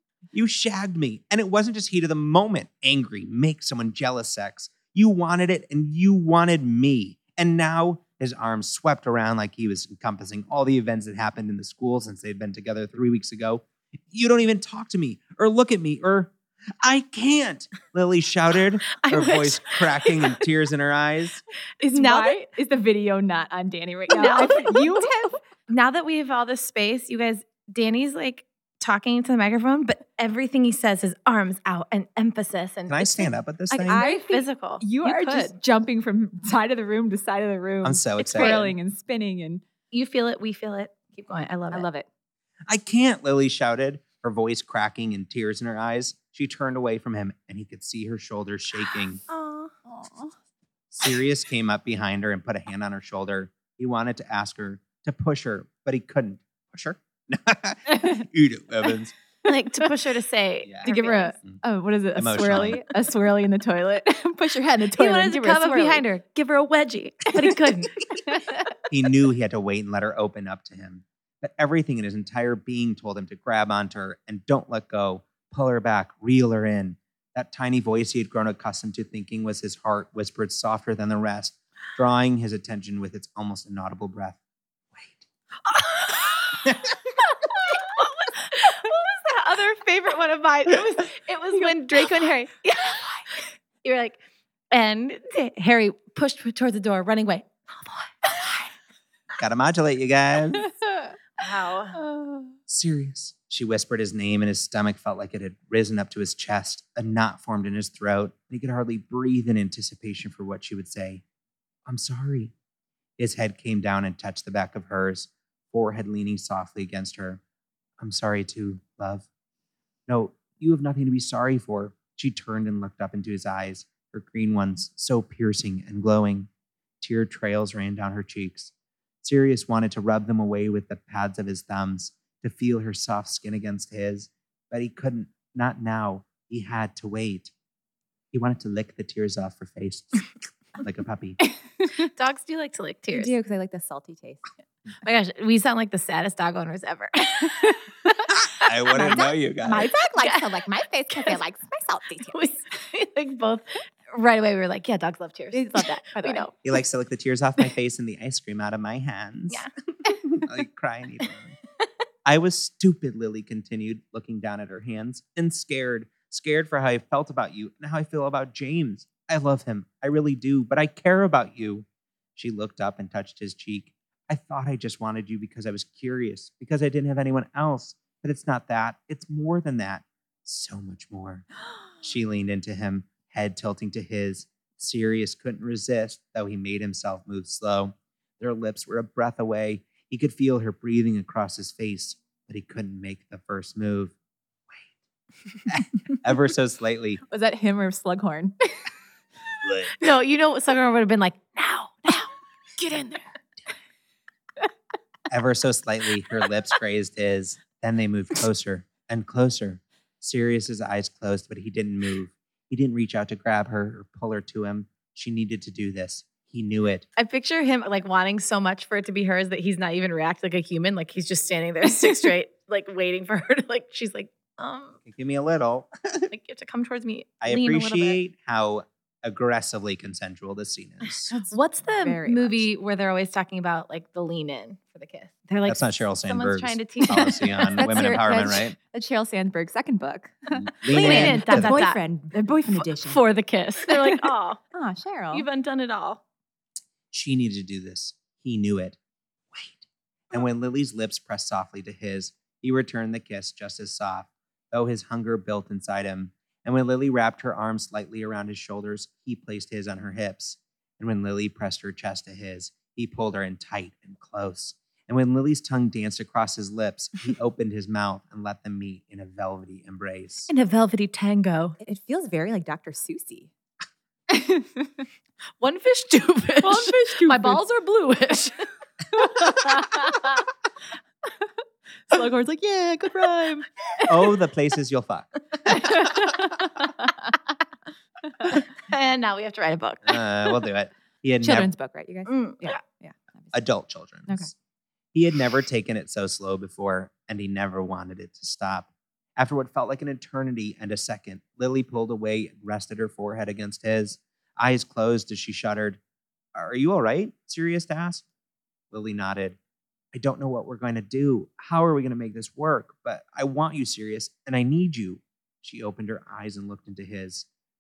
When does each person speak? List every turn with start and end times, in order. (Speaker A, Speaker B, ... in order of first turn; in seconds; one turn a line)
Speaker A: 0.3-21.4
Speaker B: 19.0-20.4
Speaker B: 21.8-22.4
Speaker C: 21.9-25.4
Speaker B: 24.1-35.5
Speaker A: 32.9-34.0
Speaker C: 33.9-39.6
Speaker A: 37.8-38.7
Speaker B: 38.2-38.7
Speaker B: 39.9-41.9
Speaker C: 41.7-42.1
Speaker A: 42.7-49.2
Speaker B: 49.3-49.7
Speaker C: 49.9-50.3
Speaker A: 50.9-59.1
Speaker B: 59.5-61.4
Speaker A: 60.6-60.9
Speaker C: 60.8-66.0
Speaker A: 62.1-62.8
Speaker B: 65.0-68.2
Speaker A: 68.9-84.4
Speaker A: 84.9-85.2
Speaker B: 85.7-86.6
Speaker A: 86.7-86.9
Speaker B: 87.3-93.2
Speaker B: 93.8-94.2
Speaker B: 94.7-98.5
Speaker A: 99.4-100.7
Speaker C: 100.6-101.2
Speaker B: 101.4-102.0
Speaker C: 101.9-102.5
Speaker A: 102.7-111.2
Speaker A: 111.9-112.5
Speaker A: 113.2-117.4
Speaker A: 118.0-119.3
Speaker A: 120.1-126.5
Speaker A: 127.0-128.7
Speaker A: 129.2-137.5
Speaker A: 138.3-140.3
Speaker A: 140.8-141.4
Speaker B: 142.0-143.3
Speaker C: 143.1-144.5
Speaker B: 145.0-147.8
Speaker A: 148.6-149.9
Speaker B: 148.6-149.1
Speaker C: 148.9-152.4
Speaker B: 150.2-150.4
Speaker B: 151.1-151.4
Speaker B: 152.2-156.5
Speaker C: 155.5-156.5
Speaker A: 156.6-159.7
Speaker A: 160.3-161.6
Speaker A: 162.2-181.5
Speaker A: 182.0-194.2
Speaker A: 195.7-197.2
Speaker C: 197.3-198.8
Speaker A: 199.6-199.9
Speaker B: 199.9-202.3
Speaker C: 202.8-203.2
Speaker A: 205.3-217.1
Speaker B: 217.2-225.0
Speaker A: 225.1-226.3
Speaker B: 226.3-228.2
Speaker A: 227.4-231.3
Speaker C: 231.3-232.7
Speaker B: 231.5-237.9
Speaker A: 235.7-238.8
Speaker C: 237.8-243.2
Speaker A: 240.5-241.9
Speaker B: 240.9-242.0
Speaker B: 242.7-244.6
Speaker C: 243.9-245.5
Speaker B: 245.3-246.2
Speaker A: 247.1-249.0
Speaker A: 249.5-270.5
Speaker B: 270.5-271.8
Speaker C: 271.8-273.5
Speaker C: 274.3-275.0
Speaker B: 275.6-280.1
Speaker C: 276.6-277.6
Speaker C: 279.2-280.3
Speaker C: 282.1-284.3
Speaker A: 284.1-286.2
Speaker C: 285.8-286.9
Speaker B: 288.5-290.2
Speaker A: 290.1-291.7
Speaker C: 291.4-293.6
Speaker B: 292.3-292.8
Speaker A: 293.5-294.5
Speaker A: 295.1-306.0
Speaker A: 306.6-308.2
Speaker A: 308.9-309.6
Speaker A: 310.1-317.5